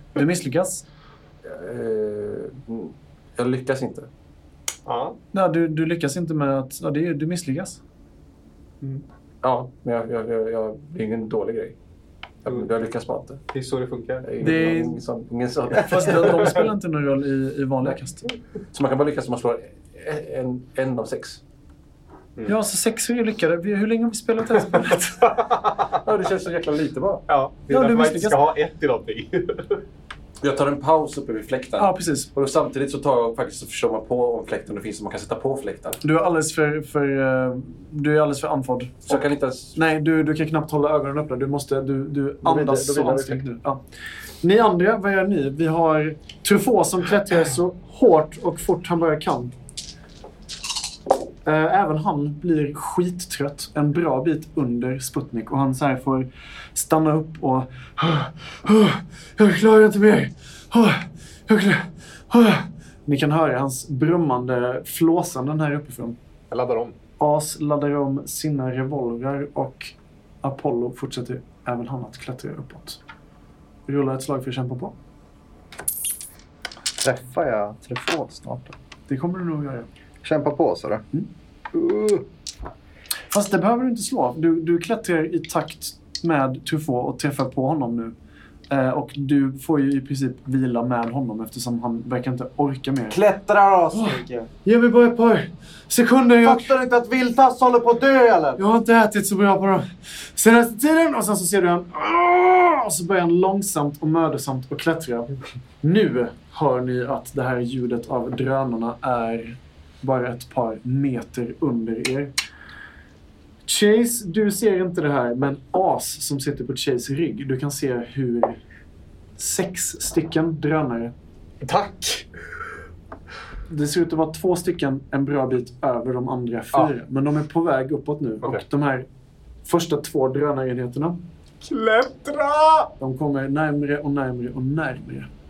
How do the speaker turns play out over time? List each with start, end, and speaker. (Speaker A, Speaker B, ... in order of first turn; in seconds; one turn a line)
Speaker A: 0.1-0.8
Speaker B: 1.4-4.1
Speaker C: 4.8-5.2
Speaker A: 5.3-7.8
Speaker B: 9.4-11.8
Speaker B: 12.4-13.4
Speaker C: 13.5-14.3
Speaker B: 14.2-16.6
Speaker A: 14.4-15.0
Speaker A: 15.7-18.3
Speaker B: 18.7-21.4
Speaker A: 22.4-25.4
Speaker C: 25.2-25.9
Speaker B: 26.0-27.2
Speaker C: 27.3-29.8
Speaker A: 27.7-28.4
Speaker B: 30.4-36.0
Speaker A: 31.8-32.3
Speaker A: 36.0-39.2
Speaker B: 39.1-39.8
Speaker A: 39.7-43.8
Speaker B: 42.5-43.3
Speaker A: 44.4-49.5
Speaker A: 51.4-66.2
Speaker C: 66.5-66.9
Speaker A: 67.2-73.0
Speaker A: 73.9-74.9
Speaker D: 77.0-78.7
Speaker A: 79.1-79.9
Speaker D: 80.2-81.0
Speaker D: 81.7-82.2
Speaker A: 83.3-88.1
Speaker A: 88.7-93.2
Speaker D: 93.1-94.5
Speaker A: 93.9-96.7
Speaker D: 96.4-98.6
Speaker A: 98.5-112.3
Speaker A: 113.7-118.6
Speaker A: 119.4-121.1
Speaker C: 121.6-122.3
Speaker A: 123.7-129.1
Speaker A: 129.6-131.2
Speaker C: 131.6-132.9
Speaker A: 133.0-135.3